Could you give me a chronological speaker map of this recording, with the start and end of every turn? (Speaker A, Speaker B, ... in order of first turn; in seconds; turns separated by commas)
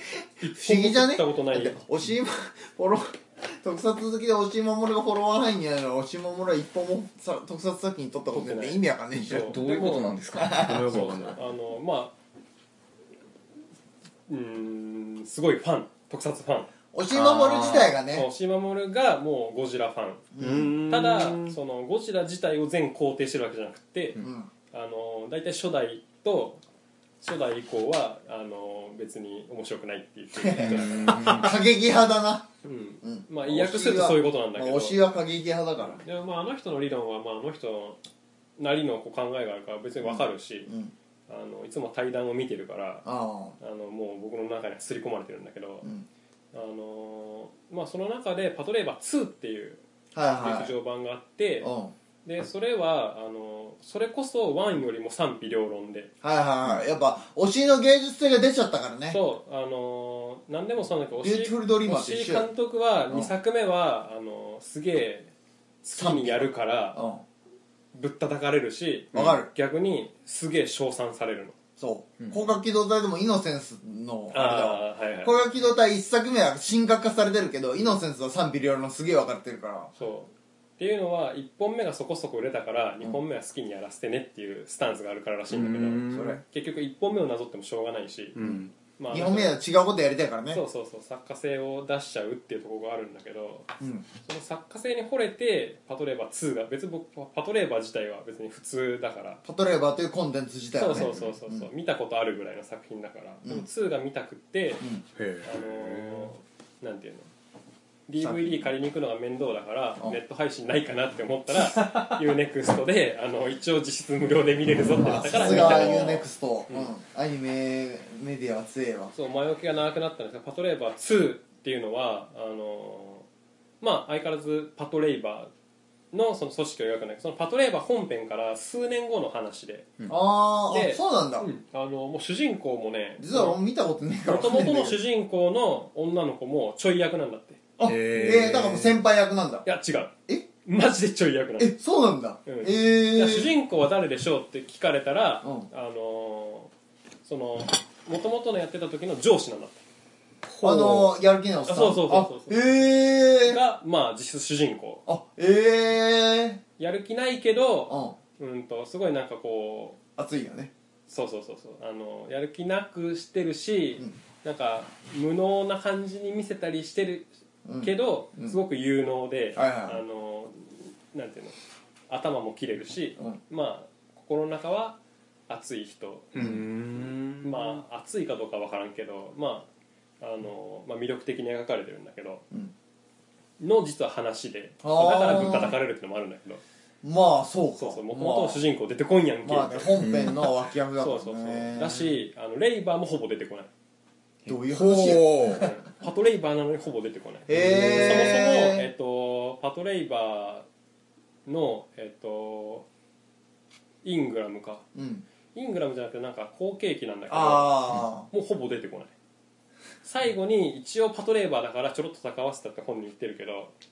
Speaker A: 0.4-1.8, Speaker B: 0.5-9.6, Speaker A: 8.3-10.2, Speaker C: 9.2-11.3, Speaker B: 10.3-10.9, Speaker D: 10.6-11.4, Speaker A: 10.8-12.1, Speaker A: 14.3-16.7, Speaker B: 16.9-18.3, Speaker C: 17.1-17.9, Speaker A: 18.1-20.3, Speaker B: 20.3-20.7, Speaker D: 20.4-21.6, Speaker A: 20.9-24.2, Speaker B: 24.2-24.5, Speaker A: 24.7-26.6, Speaker A: 27.2-31.5, Speaker B: 30.4-32.5, Speaker C: 30.6-31.5, Speaker A: 32.6-35.0, Speaker B: 33.0-36.0, Speaker A: 35.9-38.0, Speaker A: 38.6-40.7, Speaker B: 40.0-40.9, Speaker A: 41.3-43.0, Speaker B: 43.0-43.5, Speaker A: 43.6-45.9, Speaker A: 46.5-49.8, Speaker B: 50.1-50.7, Speaker A: 50.4-51.7, Speaker B: 51.6-51.9, Speaker A: 52.2-56.1, Speaker B: 56.2-59.2, Speaker A: 59.1-65.3, Speaker B: 61.2-62.5, Speaker A: 65.8-67.0, Speaker B: 65.9-67.2, Speaker A: 67.9-71.5, Speaker B: 69.1-69.5, Speaker B: 71.8-79.9, Speaker A: 74.3-75.4, Speaker A: 80.0-88.3, Speaker D: 85.5-86.3, Speaker B: 86.1-86.4, Speaker D: 88.3-88.7, Speaker A: 89.0-89.5, Speaker B: 89.1-90.6, Speaker A: 90.5-93.7, Speaker B: 93.8-94.0, Speaker A: 94.2-99.4, Speaker B: 99.4-101.7, Speaker A: 100.7-104.8, Speaker D: 101.0-101.2, Speaker D: 105.2-106.3, Speaker A: 105.4-107.3, Speaker A: 108.1-116.9, Speaker B: 108.2-108.6, Speaker B: 115.0-119.1, Speaker A: 119.1-123.2, Speaker A: 123.8-125.5, Speaker A: 126.1-129.9, Speaker B: 130.1-131.5, Speaker A: 130.7-133.6, Speaker B: 133.2-135.0, Speaker A: 134.2-137.7, Speaker B: 137.8-139.7, Speaker D: 137.8-139.0, Speaker A: 139.6-140.1, Speaker A: 140.6-141.8, Speaker B: 141.6-143.5, Speaker A: 142.4-146.7, Speaker B: 145.4-145.7, Speaker A: 147.2-149.8, Speaker A: 150.4-155.0, Speaker B: 150.6-153.6, Speaker B: 155.1-156.6, Speaker A: 156.8-160.0, Speaker B: 157.9-158.2, Speaker B: 160.2-160.7, Speaker A: 161.1-167.3, Speaker B: 167.6-168.6, Speaker A: 167.8-171.5, Speaker B: 169.5-170.0, Speaker A: 172.1-176.3, Speaker D: 176.3-177.8, Speaker A: 177.4-179.7, Speaker A: 180.2-182.4, Speaker A: 183.6-186.6, Speaker B: 184.8-185.8, Speaker B: 187.0-188.6, Speaker A: 187.8-190.0, Speaker B: 189.4-192.0, Speaker C: 190.0-190.4, Speaker A: 191.0-193.7, Speaker B: 194.5-195.7, Speaker D: 194.7-195.7, Speaker A: 195.5-200.7, Speaker B: 197.5-198.9, Speaker C: 197.6-197.9, Speaker A: 201.4-202.8, Speaker A: 204.0-204.8, Speaker B: 204.9-205.2, Speaker A: 205.5-209.1, Speaker B: 207.3-208.3, Speaker A: 210.0-213.7